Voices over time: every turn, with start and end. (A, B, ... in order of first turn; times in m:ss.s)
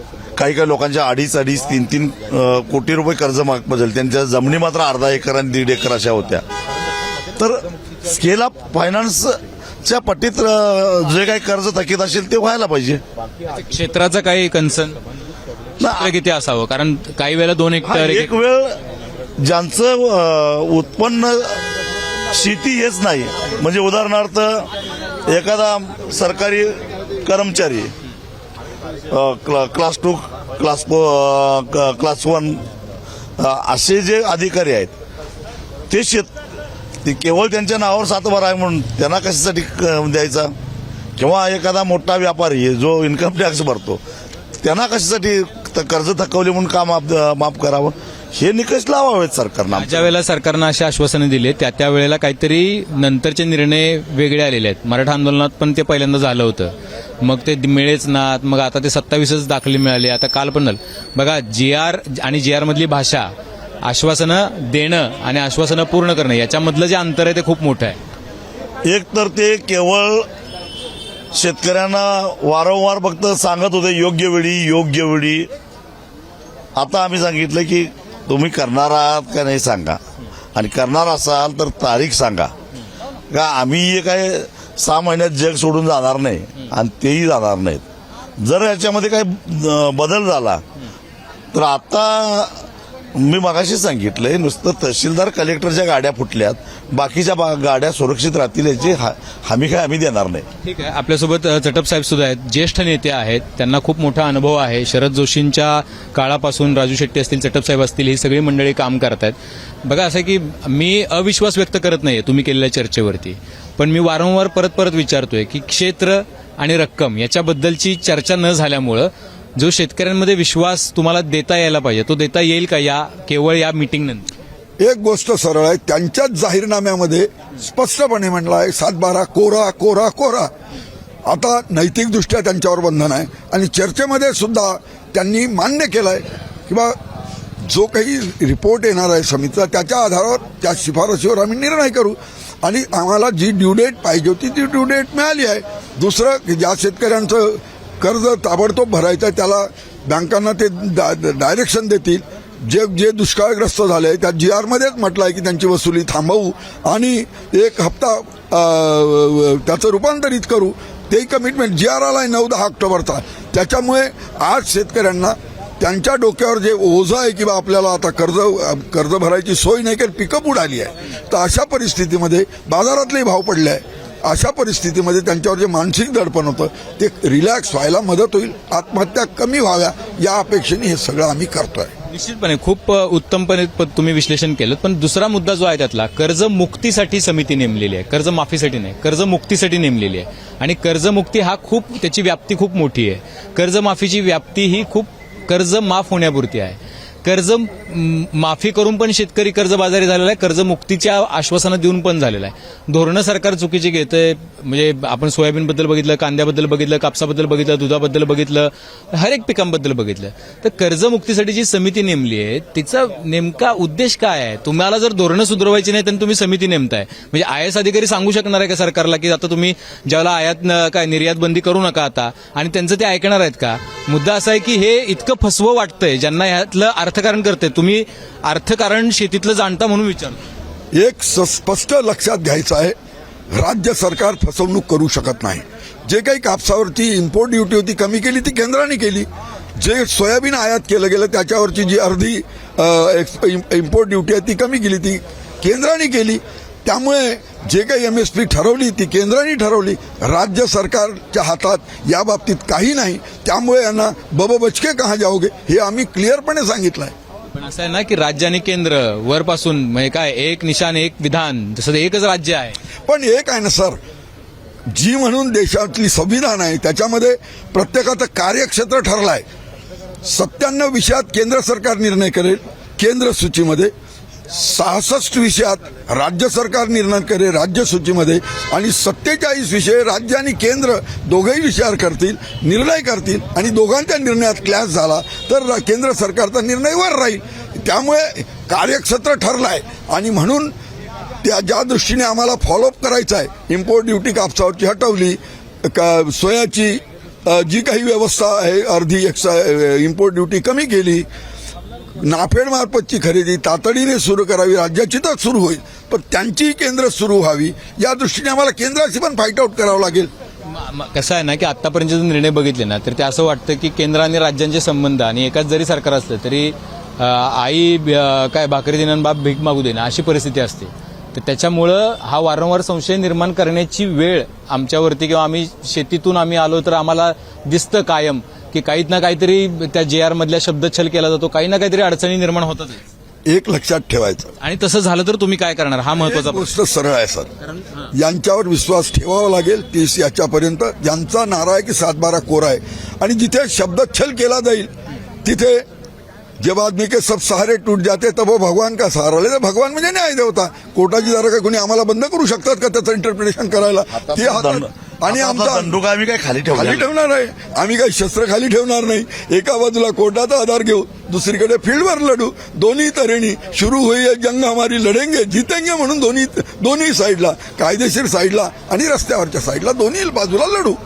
0:00.4-0:06.4 A
0:07.4-0:13.0 A
0:13.6-0:15.0 B
0:15.8-0:16.1 A
0:15.8-0:18.3 B
0:17.8-0:18.8 A
0:19.4-0:21.6 A
0:22.3-0:24.7 A
0:25.2-0:27.9 A
0:29.1-0:32.6 A
0:33.4-0:34.9 A
0:35.9-0:36.4 A
0:37.0-0:40.5 A
0:41.2-0:44.0 A
0:44.6-0:50.1 A
0:49.8-1:03.3 B
1:03.8-1:08.0 B
1:08.8-1:10.3 A
1:11.3-1:15.5 A
1:16.8-1:20.0 A
1:20.5-1:22.5 A
1:23.3-1:27.8 A
1:28.4-1:30.6 A
1:31.5-1:32.6 A
1:33.1-1:40.4 A
1:40.6-1:49.3 B
1:49.8-2:04.3 B
2:04.8-2:10.5 C
2:11.2-2:17.0 C
2:17.6-3:01.9 C
3:02.1-3:50.4 B
3:51.0-3:52.9 C
3:53.5-4:17.1 C
4:17.5-4:22.8 B
4:23.1-4:24.0 C
4:24.9-4:29.4 C
4:30.2-4:33.9 C
4:34.5-4:50.7 C
4:51.4-5:01.2 C
5:02.2-5:10.3 C
5:10.7-5:33.0 B
5:33.4-5:34.5 C
5:34.6-5:36.7 B
5:36.2-5:37.5 C
5:38.1-5:44.9 C
5:45.4-5:45.8 C
5:46.6-5:56.0 C
5:54.2-5:57.1 A
5:56.7-6:11.0 C